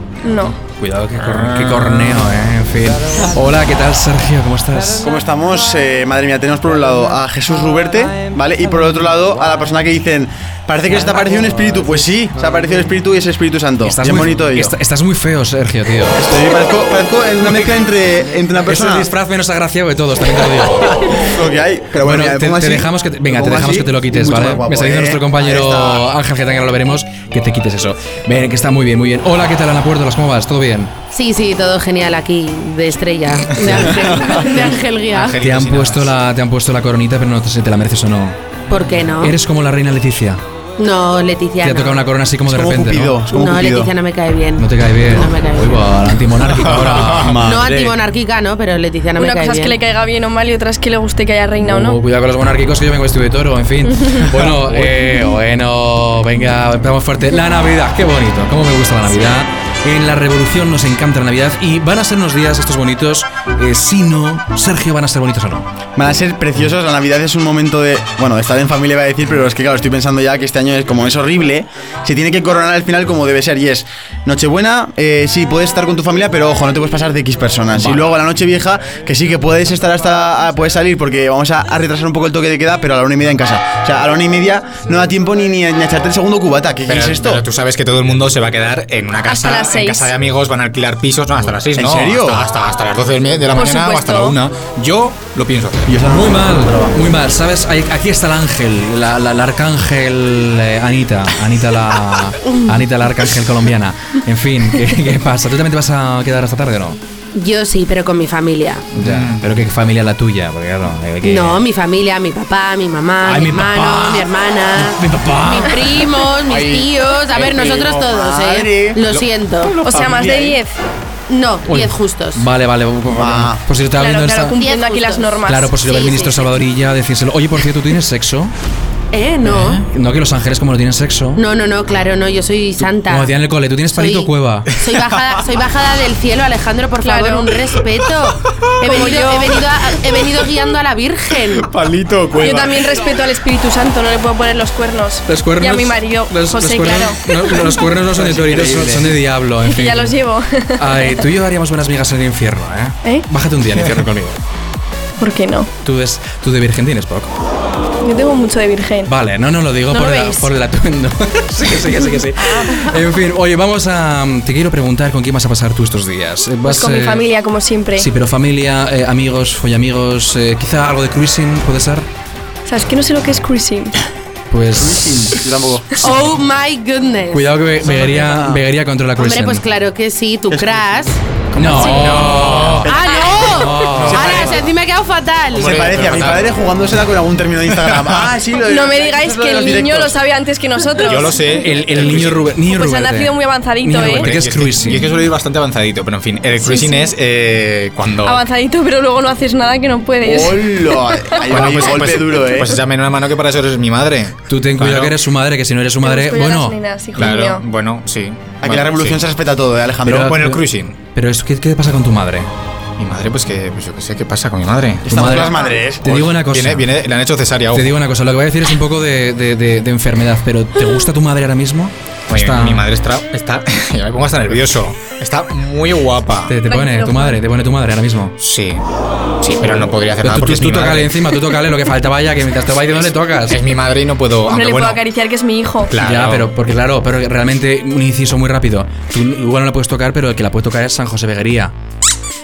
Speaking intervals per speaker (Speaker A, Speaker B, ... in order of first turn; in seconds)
Speaker A: 0.2-0.5, 49.2-52.0, 89.3-90.1, 93.5-94.4, 119.8-120.7, 124.0-125.7, 137.0-137.5, 138.8-139.5, 142.4-147.7, 149.6-151.2, 155.2-155.7, 158.0-159.1, 159.9-160.3, 166.6-168.1, 172.7-174.0, 183.1-183.4, 188.7-191.6, 192.7-194.3, 196.6-197.1, 198.2-201.4, 206.0-207.6, 226.7-227.4, 234.5-235.9
Speaker B: 0.6-5.1, 13.8-16.2, 18.7-21.2, 22.0-30.9, 35.4-38.4, 39.2-40.4, 41.6-43.1, 44.6-47.3, 51.6-65.7, 96.1-107.0, 108.9-111.6, 113.2-116.1, 121.7-124.6, 125.5-128.5, 129.4-131.4, 133.1-134.7, 145.3-150.2, 150.8-154.4, 155.8-157.3, 159.1-167.2, 168.0-172.1, 174.5-175.4, 177.3-179.6, 181.5-182.9, 183.4-184.3, 191.6-195.1, 204.5-206.8, 210.1-212.5, 215.1-216.9, 217.7-222.9, 226.5-228.3, 230.2-233.6, 236.0-241.7
Speaker C: 1.3-2.1, 33.5-34.6, 35.1-36.1, 38.7-38.9, 46.5-47.4, 86.8-96.1, 109.0-109.5, 116.5-116.8, 138.5-139.1, 141.6-142.8, 181.7-182.9, 183.9-184.4, 185.5-186.5, 187.7-188.3, 190.9-192.5, 194.1-198.4, 201.5-205.2, 207.1-209.2, 210.1-210.9, 213.0-215.4, 216.4-217.9, 222.3-226.5, 228.4-228.8, 229.4-231.1, 233.5-235.0, 235.9-236.5
Speaker D: 5.0-14.7, 16.1-19.1, 21.1-26.1, 42.5-43.9, 47.2-48.0, 66.0-87.4, 91.7-92.4, 95.9-97.1, 117.3-119.0, 119.8-120.6, 123.1-123.6, 148.1-149.1, 174.7-176.0, 177.8-178.6, 180.5-182.2, 182.8-184.8, 185.6-190.2, 200.2-202.8, 208.6-210.3, 215.0-216.3
Speaker E: 31.1-35.4, 38.7-39.4, 40.8-42.0, 43.3-45.8, 47.4-49.8, 107.3-108.9, 111.2-119.8, 121.3-122.4, 124.6-126.5, 129.1-129.8, 131.4-133.3, 133.9-141.7, 176.0-177.5, 179.2-181.2, 181.8-182.1, 182.8-185.7